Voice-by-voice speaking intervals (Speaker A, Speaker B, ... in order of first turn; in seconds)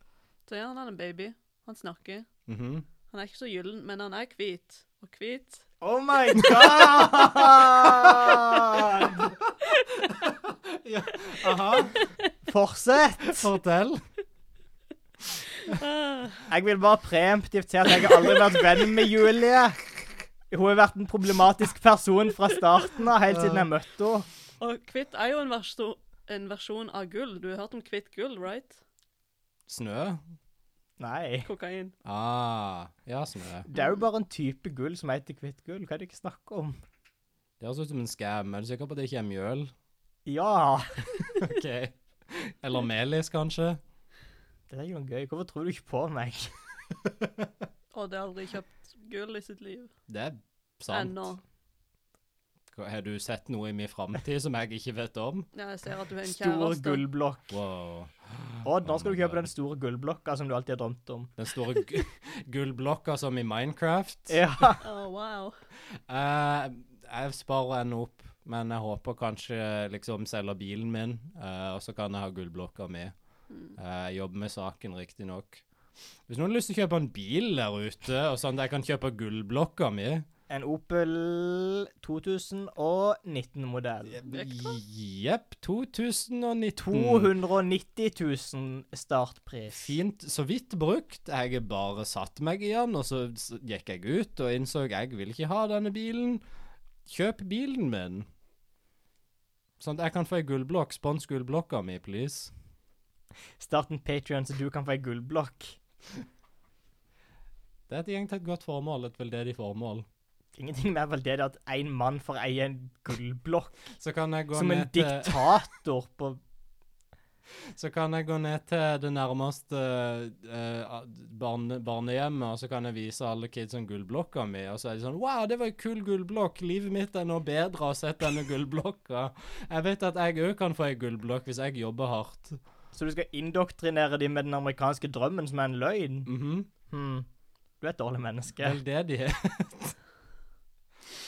Speaker A: 0.5-2.3, 3.1-5.6, 11.8-12.2, 15.6-16.4, 24.6-28.8, 31.4-31.9, 47.9-49.9, 50.9-51.4, 55.5-57.0, 64.8-65.5, 73.5-73.8, 84.3-84.8
Speaker B: 2.5-2.9, 6.4-9.6, 10.1-12.0, 13.2-14.0, 23.3-23.7, 29.7-30.2, 32.0-33.7, 37.6-39.7, 41.3-43.8, 50.1-51.2, 52.7-55.5, 57.5-59.4, 61.4-64.4, 66.0-73.1, 73.8-75.6, 76.3-80.2, 84.1-87.3, 89.7-96.4, 97.0-98.2, 99.8-102.5, 107.9-110.0, 114.0-115.6, 117.7-132.6, 136.2-136.7, 138.6-140.0
Speaker C: 5.8-9.3, 12.4-13.5, 16.5-19.8, 20.5-24.3, 31.0-31.5, 33.6-36.8, 40.2-41.2, 44.7-46.5, 56.2-57.5, 58.6-61.3, 64.3-64.8, 80.5-84.2, 86.8-89.9, 103.6-105.8, 110.6-113.9, 114.5-116.4, 132.9-136.3, 136.9-137.2, 137.8-138.8